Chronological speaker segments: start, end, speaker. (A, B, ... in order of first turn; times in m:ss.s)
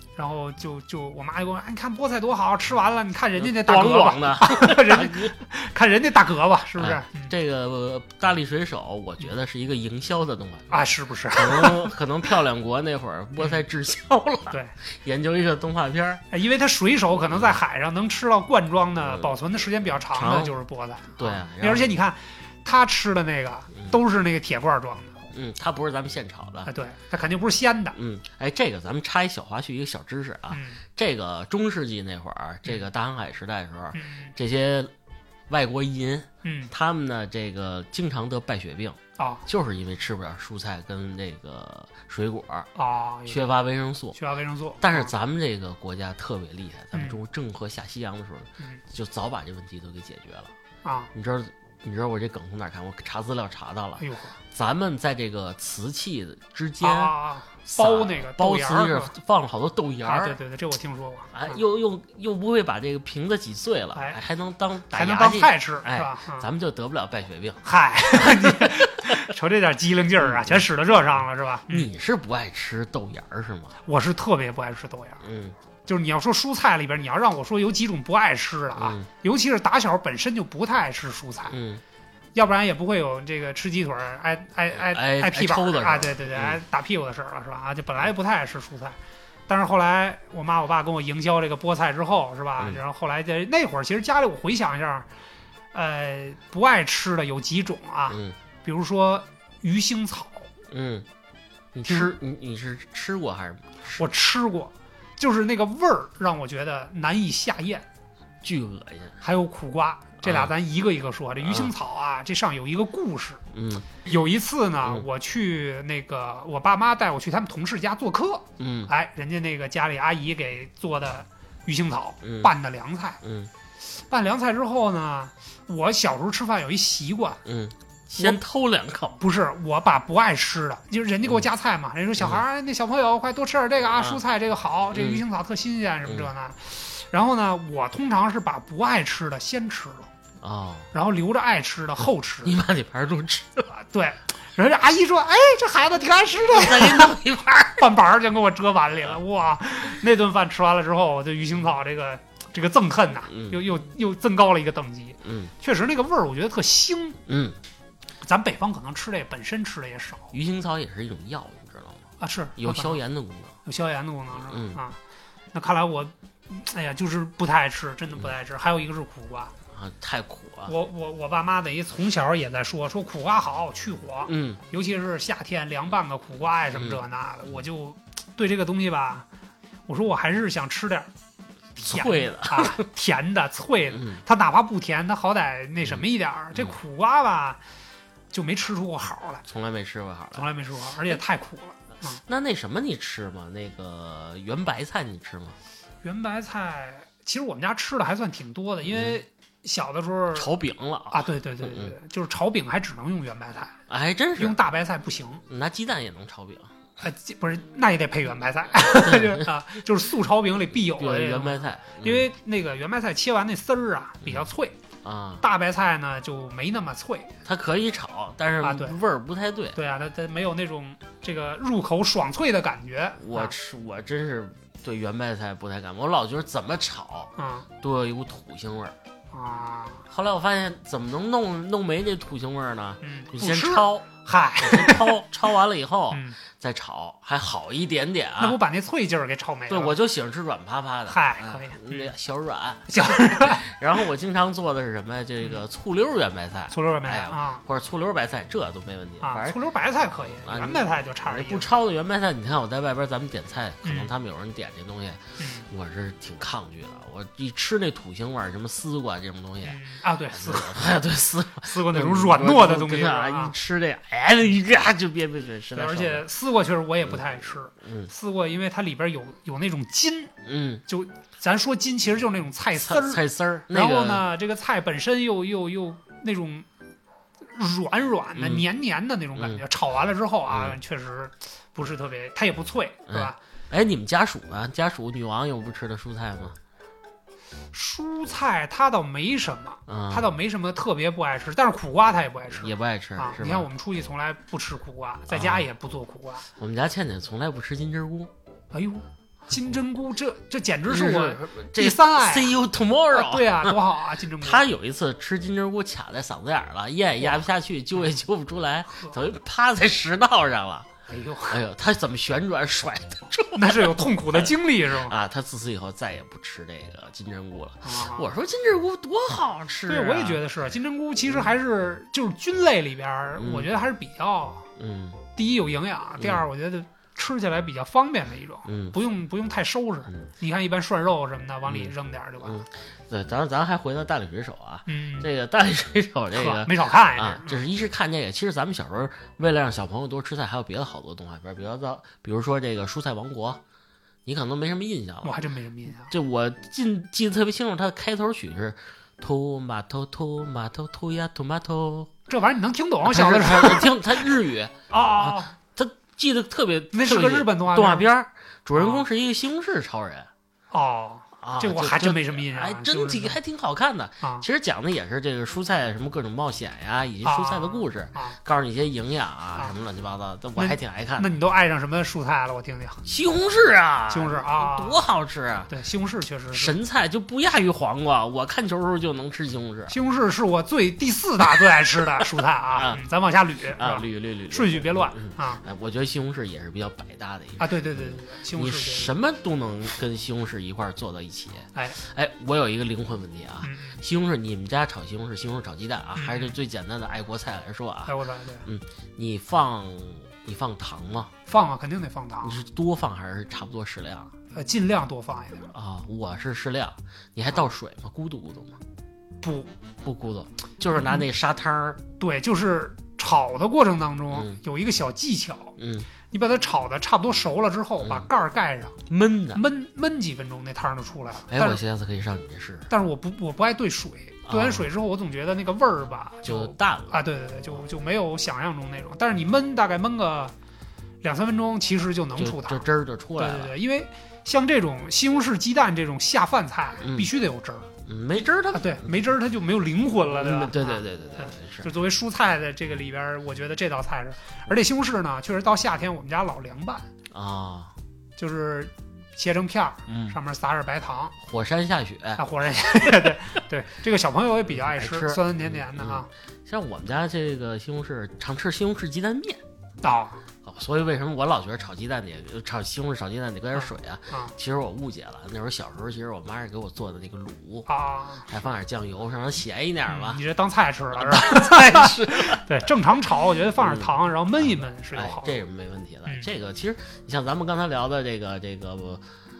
0:00.2-0:07.3 A
0:03.4-0:05.3 B
0:06.8-0:16.2 B
0:10.7-0:11.9 A
0:16.3-0:25.3 A
0:17.3-0:17.6 B
0:19.0-0:19.4 B
0:20.0-0:20.5 B
0:21.2-0:21.9 B
0:25.3-0:26.7 B
0:26.7-0:28.0 A
0:27.9-0:34.9 B
0:30.5-0:30.8 A
0:33.9-0:34.3 A
0:35.5-0:42.7 B
0:36.4-0:36.7 A
0:39.2-0:39.4 A
0:42.8-0:43.4 A
0:43.3-0:44.2 B
0:44.1-0:45.1 A
0:44.8-0:50.5 B
0:46.9-0:47.2 A
0:50.8-0:51.1 A
0:51.1-0:57.1 B
0:54.0-0:54.4 A
0:56.8-0:59.1 A
0:57.7-1:00.4 B
1:00.0-1:01.6 A
1:01.3-1:07.6 B
1:04.9-1:06.5 A
1:07.6-1:11.9 A
1:08.2-1:09.2 B
1:10.2-1:10.6 B
1:11.7-1:13.7 B
1:13.8-1:15.2 A
1:15.2-1:15.5 B
1:15.9-1:21.6 A
1:18.8-1:19.0 B
1:21.5-1:21.8 B
1:22.3-1:29.0 A
1:24.8-1:26.6 B
1:29.5-1:35.1 A
1:35.7-1:40.5 A
1:38.1-1:38.4 B
1:40.7-1:41.1 B
1:41.7-1:44.0 B
1:41.8-1:42.1 A
1:44.0-1:47.8 A
1:48.4-1:49.2 B
1:49.2-1:53.4 A
1:50.2-1:50.5 B
1:51.4-1:51.7 B
1:53.5-1:54.0 B
1:54.0-2:03.2 A
1:58.6-1:58.9 B
2:02.2-2:02.5 B
2:03.2-2:03.5 B
2:03.9-2:07.4 A
2:07.4-2:09.2 B
2:09.2-2:20.1 A
2:14.9-2:15.2 B
2:20.4-2:20.9 B
2:20.9-2:22.6 A
2:22.4-2:23.7 B
2:23.7-2:27.2 A
2:26.4-2:27.9 B
2:27.8-2:37.2 A
2:33.3-2:33.6 B
2:35.2-2:35.5 B
2:37.3-2:37.6 B
2:38.2-2:40.3 A
2:40.3-2:43.6 B
2:42.2-2:43.0 A
2:43.6-2:45.0 A
2:44.4-2:44.8 B
2:45.5-2:49.5 A
2:49.7-2:50.7 B
2:50.7-2:59.2 A
2:54.2-2:54.6 B
2:56.7-2:57.0 B
2:59.9-3:01.1 A
3:01.8-3:07.6 A
3:01.8-3:02.8 B
3:03.9-3:04.2 B
3:05.8-3:06.7 B
3:08.3-3:09.4 A
3:09.5-3:10.5 B
3:10.3-3:12.2 A
3:12.2-3:15.6 B
3:16.0-3:20.5 A
3:18.9-3:19.1 B
3:20.3-3:21.9 B
3:21.1-3:23.8 A
3:23.9-3:24.6 B
3:24.4-3:25.4 A
3:25.5-3:26.7 B
3:27.0-3:34.8 A
3:29.0-3:29.5 B
3:30.8-3:32.3 B
3:35.0-3:35.4 B
3:35.4-3:37.3 A
3:37.4-3:39.8 B
3:38.6-3:39.0 A
3:39.7-3:43.5 A
3:43.2-3:49.0 B
3:47.4-3:47.7 A
3:49.3-3:50.0 A
3:50.1-3:54.1 B
3:53.0-3:55.2 A
3:54.6-3:58.6 B
3:56.1-3:56.4 A
3:58.4-4:00.0 A
3:59.7-4:26.2 B
4:01.1-4:02.1 A
4:02.9-4:03.6 A
4:06.7-4:07.6 A
4:09.2-4:11.7 A
4:13.8-4:14.1 A
4:15.4-4:15.7 A
4:19.6-4:20.9 A
4:21.6-4:23.5 A
4:25.7-4:30.3 A
4:27.8-4:28.1 B
4:30.4-4:30.8 B
4:30.9-4:36.6 A
4:32.8-4:34.2 B
4:37.5-4:43.4 A
4:38.4-4:38.6 B
4:40.5-4:40.8 B
4:43.1-4:46.6 B
4:47.7-4:56.5 A
4:49.9-4:50.3 B
4:52.6-4:53.7 B
4:55.3-4:55.7 B
4:56.6-4:58.3 B
4:58.7-5:02.5 A
5:00.9-5:03.8 B
5:03.1-5:04.6 A
5:04.4-5:10.9 B
5:11.1-5:11.6 A
5:11.5-5:20.4 B
5:13.6-5:15.2 A
5:17.8-5:18.3 A
5:19.9-5:24.7 A
5:23.4-5:23.7 B
5:24.8-5:25.2 B
5:25.4-5:32.6 A
5:28.6-5:29.0 B
5:31.7-5:43.6 B
5:34.9-5:35.3 A
5:36.3-5:37.6 A
5:44.2-5:45.4 B
5:45.2-5:46.1 A
5:46.1-5:52.1 B
5:52.3-5:54.3 A
5:53.0-6:00.3 B
5:54.9-5:55.5 A
5:56.9-5:58.1 A
5:58.8-5:59.0 A
6:00.7-6:03.4 A
6:01.4-6:11.3 B
6:07.2-6:08.4 A
6:10.6-6:13.0 A
6:13.0-6:15.7 B
6:14.1-6:15.0 A
6:15.7-6:16.8 A
6:16.5-6:19.9 B
6:19.9-6:25.6 A
6:22.8-6:23.0 B
6:23.7-6:41.3 B
6:27.6-6:29.1 A
6:33.6-6:34.0 A
6:36.2-6:36.5 A
6:38.1-6:38.6 A
6:41.5-6:42.6 A
6:42.4-6:44.3 B
6:44.5-6:45.7 A
6:45.7-6:48.8 B
6:49.4-6:49.7 A
6:50.0-6:52.0 B
6:51.0-6:51.2 A
6:52.2-6:55.8 A
6:54.3-6:54.6 B
6:55.8-6:56.1 B
6:56.3-6:59.0 A
6:58.0-6:58.3 B
6:59.1-6:59.6 B
6:59.5-7:01.8 A
7:01.5-7:02.9 B
7:02.9-7:10.5 A
7:04.5-7:04.9 B
7:06.4-7:07.2 B
7:11.2-7:12.8 A
7:12.4-7:13.7 B
7:13.4-7:17.9 A
7:17.0-7:17.3 B
7:18.0-7:19.2 B
7:18.7-7:27.1 A
7:20.3-7:21.9 B
7:27.3-7:27.9 B
7:28.4-7:31.3 A
7:30.1-7:30.4 B
7:31.4-7:32.4 B
7:32.4-7:36.3 A
7:34.7-7:39.6 B
7:40.0-7:40.4 A
7:40.6-7:47.9 B
7:43.8-7:44.5 A
7:47.9-7:48.5 A
7:48.5-7:50.4 B
7:50.1-7:55.6 A
7:51.1-7:52.8 B
7:53.8-7:59.2 B